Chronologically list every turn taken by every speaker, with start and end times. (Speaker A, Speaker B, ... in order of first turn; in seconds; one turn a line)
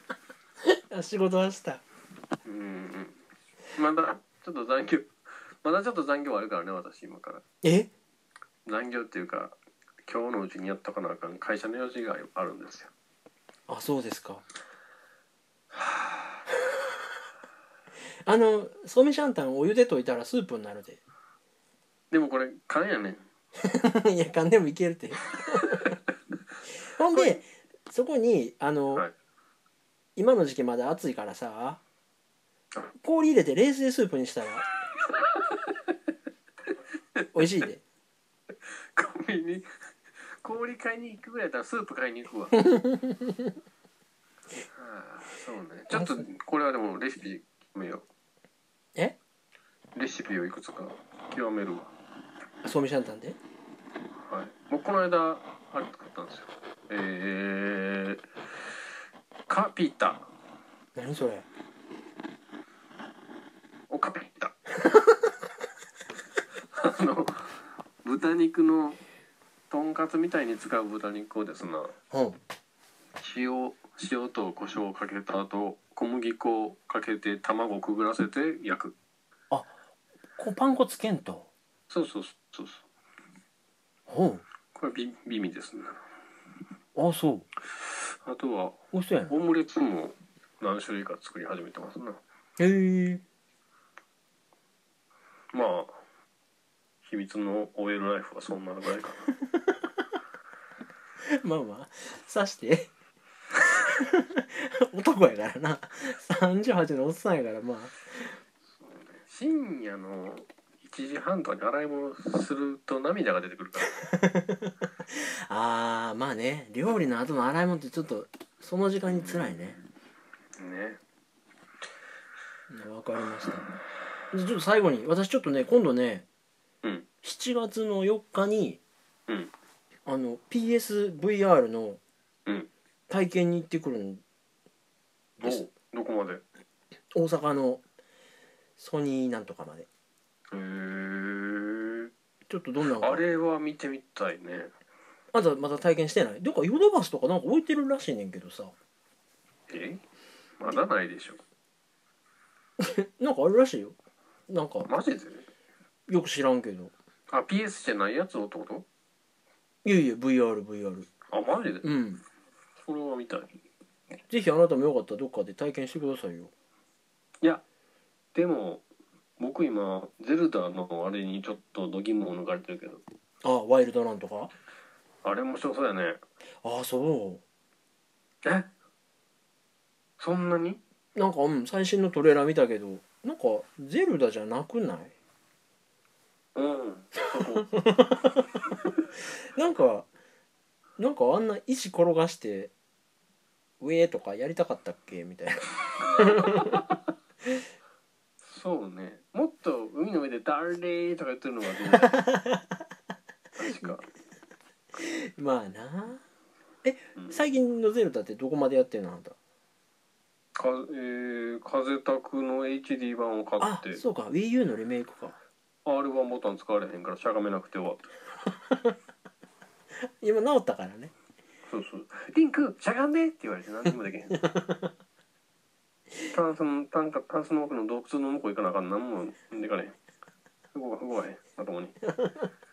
Speaker A: 0.7-1.8
Speaker B: 2.5-3.2
Speaker B: 3.7-7.4
Speaker A: 7.6-7.9
Speaker B: 8.7-12.9
Speaker A: 13.7-14.4
Speaker B: 15.7-16.4
Speaker A: 18.3-21.0
Speaker B: 22.1-23.2
Speaker A: 23.6-26.0
Speaker B: 25.5-26.0
Speaker A: 26.8-29.1
Speaker B: 27.1-27.4
Speaker A: 30.2-31.8
Speaker A: 33.0-34.7
Speaker B: 35.1-35.9
Speaker B: 37.2-37.5
Speaker A: 37.4-37.8
Speaker B: 38.6-39.7
Speaker B: 40.4-42.6
Speaker A: 42.5-43.5
Speaker B: 44.7-48.0
Speaker A: 45.9-46.2
Speaker B: 50.0-51.9
Speaker A: 52.6-53.4
Speaker B: 54.2-58.8
Speaker B: 59.5-60.3
Speaker A: 61.0-61.5
Speaker B: 63.9-64.6
Speaker B: 66.7-69.0
Speaker B: 69.7-71.9
Speaker A: 72.1-72.4
Speaker B: 73.2-78.9
Speaker A: 80.4-81.5
Speaker B: 81.9-82.9
Speaker A: 84.1-84.4
Speaker B: 84.8-86.0
Speaker A: 87.0-87.5
Speaker B: 87.8-92.2
Speaker A: 88.9-89.3
Speaker A: 92.6-93.2
Speaker B: 95.5-96.0
Speaker B: 97.0-99.3
Speaker A: 101.3-102.9
Speaker A: 103.5-108.4
Speaker B: 108.8-114.0
Speaker A: 113.9-119.8
Speaker B: 119.1-119.6
Speaker B: 120.6-121.0
Speaker A: 122.7-123.7
Speaker A: 124.3-126.3
Speaker A: 127.2-128.8
Speaker A: 130.1-132.0
Speaker A: 133.1-134.2
Speaker B: 135.4-136.4
Speaker A: 137.1-137.8
Speaker A: 138.8-139.9
Speaker B: 140.5-142.1
Speaker A: 142.5-143.2
Speaker B: 143.0-144.7
Speaker A: 145.3-148.7
Speaker B: 149.7-150.0
Speaker B: 150.6-151.4
Speaker A: 152.8-154.0
Speaker A: 154.5-154.9
Speaker B: 154.9-155.4
Speaker A: 156.1-156.9
Speaker B: 157.3-158.9
Speaker A: 159.8-161.1
Speaker B: 161.3-161.9
Speaker A: 161.8-162.2
Speaker B: 162.8-163.5
Speaker A: 164.3-166.5
Speaker B: 168.3-168.8
Speaker B: 169.4-173.0
Speaker A: 173.4-174.5
Speaker B: 175.2-176.2
Speaker A: 176.6-177.4
Speaker B: 178.4-178.7
Speaker B: 180.2-180.8
Speaker A: 181.2-185.1
Speaker B: 186.6-187.7
Speaker A: 187.4-190.1
Speaker A: 191.0-192.7
Speaker A: 193.8-196.8
Speaker B: 196.0-196.9
Speaker B: 198.4-202.2
Speaker A: 202.0-202.8
Speaker B: 203.6-204.0
Speaker A: 203.7-204.0
Speaker A: 205.0-206.2
Speaker A: 206.8-209.4
Speaker B: 207.2-207.4
Speaker B: 210.6-214.0
Speaker A: 213.6-215.4
Speaker B: 215.9-218.2
Speaker A: 220.0-221.1
Speaker B: 221.7-224.5
Speaker A: 224.4-224.9
Speaker B: 226.3-230.0
Speaker B: 230.7-231.9
Speaker A: 232.0-232.5